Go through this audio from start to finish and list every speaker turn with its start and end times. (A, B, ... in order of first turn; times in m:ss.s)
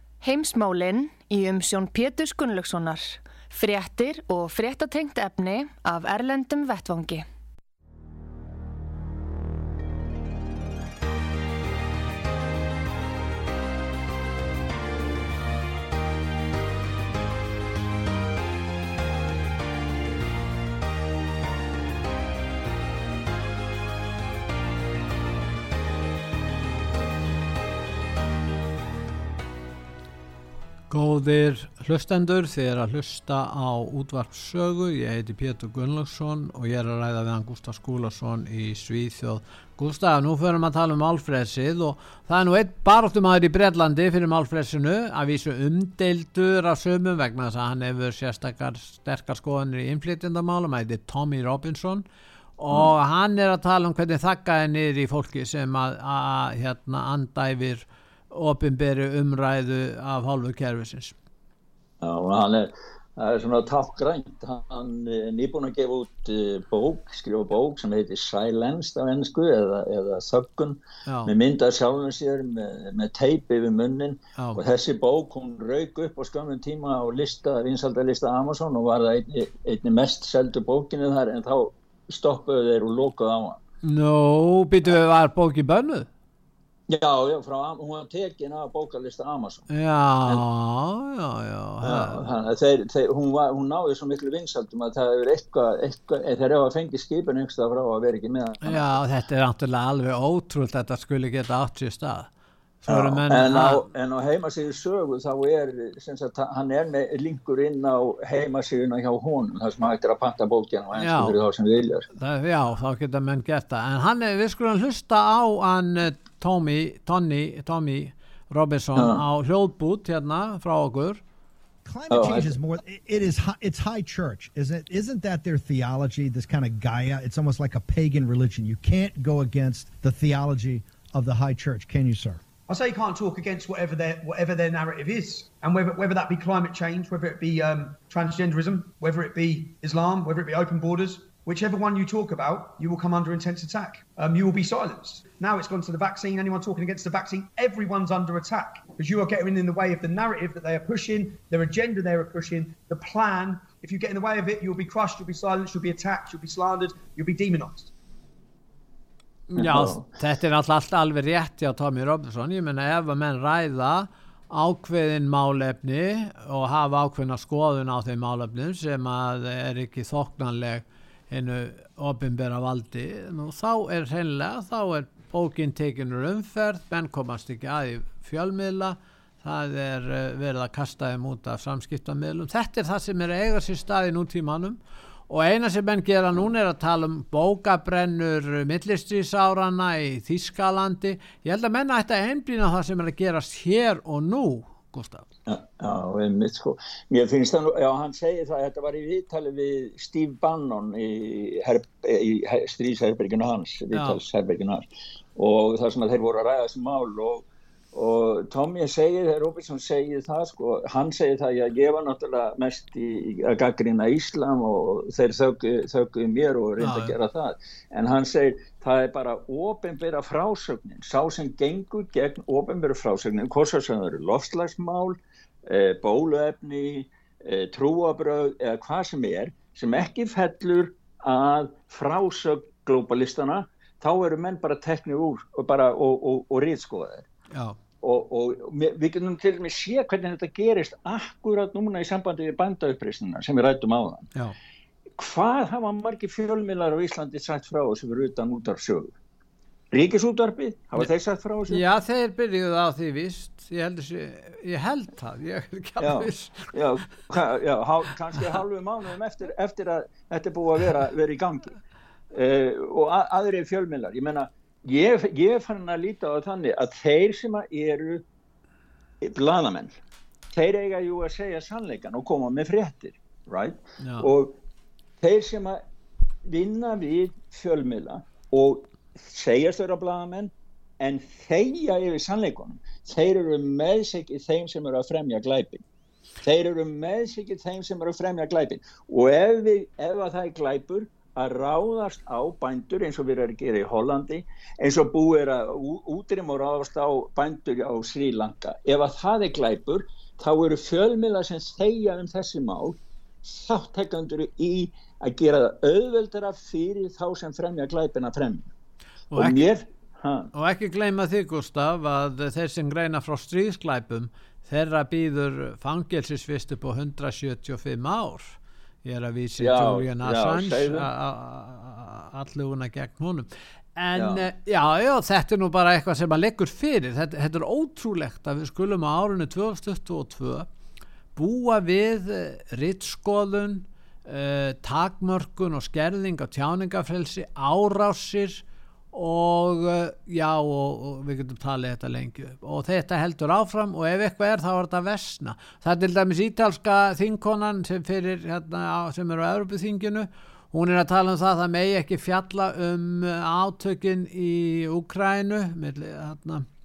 0:00.2-0:07.2 A
0:30.9-0:52.0 B
0:52.6-1:01.2 B
1:02.0-1:23.6 C
1:11.1-1:11.3 B
1:14.4-1:14.6 B
1:23.8-1:26.1 B
1:26.9-1:29.7 C
1:29.7-1:32.3 B
1:31.8-1:39.0 C
1:38.6-1:42.3 B
1:42.8-1:43.8 B
1:42.9-1:52.1 C
1:51.0-1:51.4 B
1:52.2-2:01.2 B
1:59.0-1:59.2 C
2:01.8-2:12.4 D
2:02.1-2:02.6 C
2:12.7-2:37.9 E
2:39.5-3:15.3 B
2:39.6-2:40.0 C
3:15.5-3:57.3 C
3:23.9-3:24.2 B
3:36.8-3:37.2 B
3:57.5-3:57.8 B
3:58.0-4:04.3 C
4:05.2-4:09.2 C
4:09.9-4:11.8 C
4:11.7-4:16.7 B
4:16.0-4:21.7 C
4:22.3-4:28.2 C
4:29.2-4:29.9 C
4:30.5-4:34.6 C
4:34.0-4:34.3 B
4:35.2-4:35.8 C
4:36.4-4:45.8 C
4:46.4-5:08.7 C
5:09.3-5:09.6 B
5:09.3-5:10.5 C
5:10.5-5:30.7 B
5:19.6-5:21.1 C
5:24.2-5:24.5 C
5:31.4-5:56.7 B